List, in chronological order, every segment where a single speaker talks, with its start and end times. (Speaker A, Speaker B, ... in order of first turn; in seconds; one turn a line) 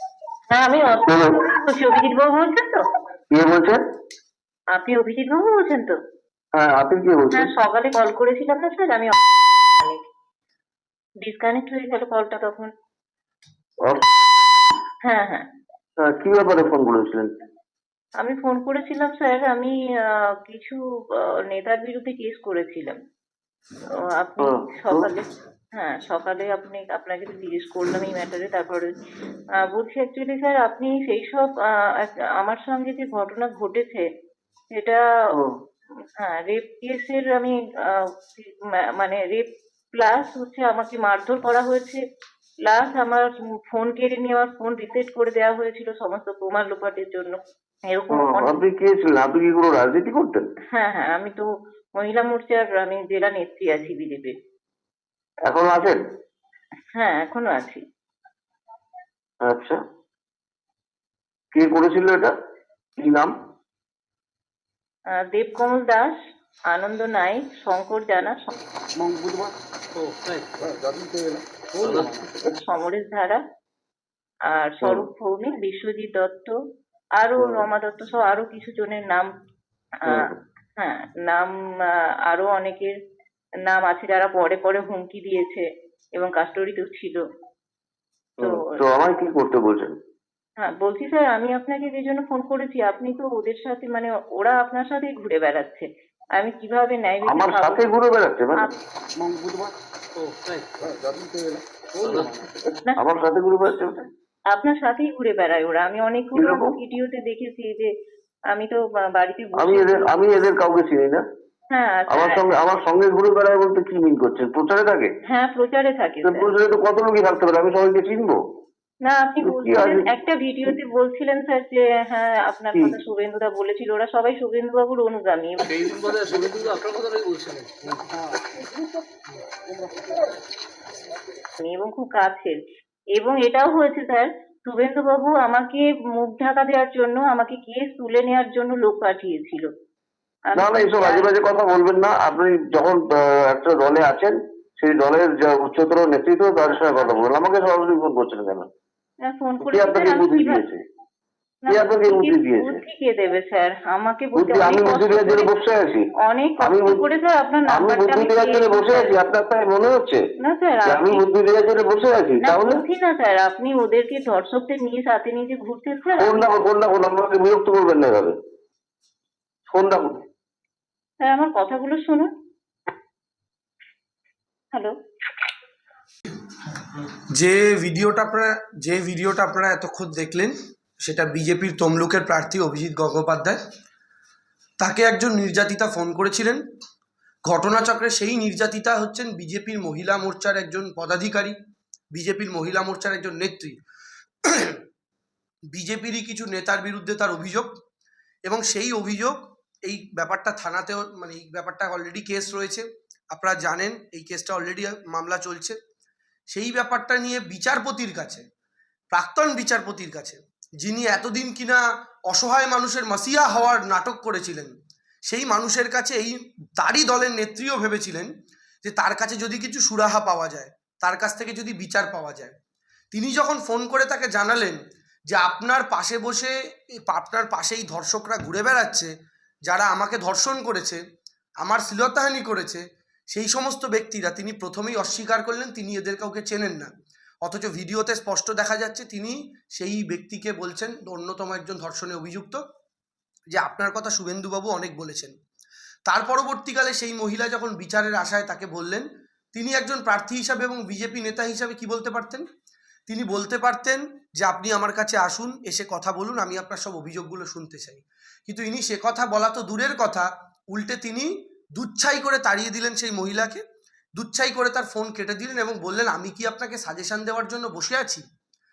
Speaker A: 0.5-2.9
Speaker B: 1.1-1.4
Speaker B: 3.3-3.8
Speaker A: 4.7-6.0
Speaker B: 6.6-7.5
Speaker A: 7.3-9.2
Speaker A: 9.7-10.0
Speaker A: 11.2-12.7
Speaker A: 15.0-15.5
Speaker B: 16.0-17.3
Speaker A: 18.2-23.0
Speaker A: 24.0-28.9
Speaker B: 24.4-25.1
Speaker A: 29.7-34.1
Speaker A: 34.7-35.0
Speaker A: 36.2-42.0
Speaker A: 42.6-48.6
Speaker B: 48.1-50.5
Speaker A: 50.7-54.4
Speaker B: 55.5-56.0
Speaker A: 57.0-57.8
Speaker B: 59.4-59.8
Speaker B: 61.5-62.3
Speaker B: 63.0-63.3
Speaker A: 65.1-66.2
Speaker A: 66.7-68.5
Speaker C: 69.0-72.3
Speaker A: 72.4-73.4
Speaker A: 74.5-76.5
Speaker A: 77.2-79.3
Speaker A: 80.8-82.9
Speaker A: 83.7-87.2
Speaker B: 88.4-89.9
Speaker A: 90.6-97.9
Speaker B: 97.3-98.6
Speaker C: 99.2-102.6
Speaker B: 103.0-104.0
Speaker A: 104.5-107.9
Speaker B: 106.4-106.7
Speaker A: 108.5-110.1
Speaker B: 109.6-111.2
Speaker A: 111.7-112.5
Speaker B: 112.1-115.1
Speaker A: 115.3-116.5
Speaker B: 116.2-118.4
Speaker A: 119.0-125.9
Speaker B: 119.4-120.1
Speaker C: 125.7-128.2
Speaker A: 131.6-132.6
Speaker A: 133.2-139.7
Speaker A: 140.5-141.3
Speaker B: 140.6-148.7
Speaker A: 146.9-147.3
Speaker A: 149.3-150.6
Speaker B: 149.7-150.8
Speaker A: 151.6-155.6
Speaker B: 151.7-152.8
Speaker B: 154.3-156.0
Speaker A: 156.2-159.2
Speaker B: 156.6-157.0
Speaker B: 157.7-160.2
Speaker A: 160.4-161.3
Speaker B: 160.9-162.8
Speaker A: 162.4-166.5
Speaker B: 166.2-168.3
Speaker B: 169.7-170.1
Speaker A: 171.2-172.3
Speaker D: 177.3-183.6
Speaker D: 184.8-186.6
Speaker D: 187.5-191.6
Speaker D: 192.1-193.8
Speaker D: 194.4-194.8
Speaker D: 195.7-197.7
Speaker D: 198.4-205.8
Speaker D: 206.5-208.4
Speaker D: 209.1-214.7
Speaker D: 215.3-218.3
Speaker D: 218.8-222.5
Speaker D: 223.1-224.8
Speaker D: 225.3-229.1
Speaker D: 229.7-231.0
Speaker D: 231.6-236.9
Speaker D: 237.4-242.6
Speaker D: 243.5-245.3
Speaker D: 246.1-252.4
Speaker D: 253.1-263.6
Speaker D: 264.2-268.2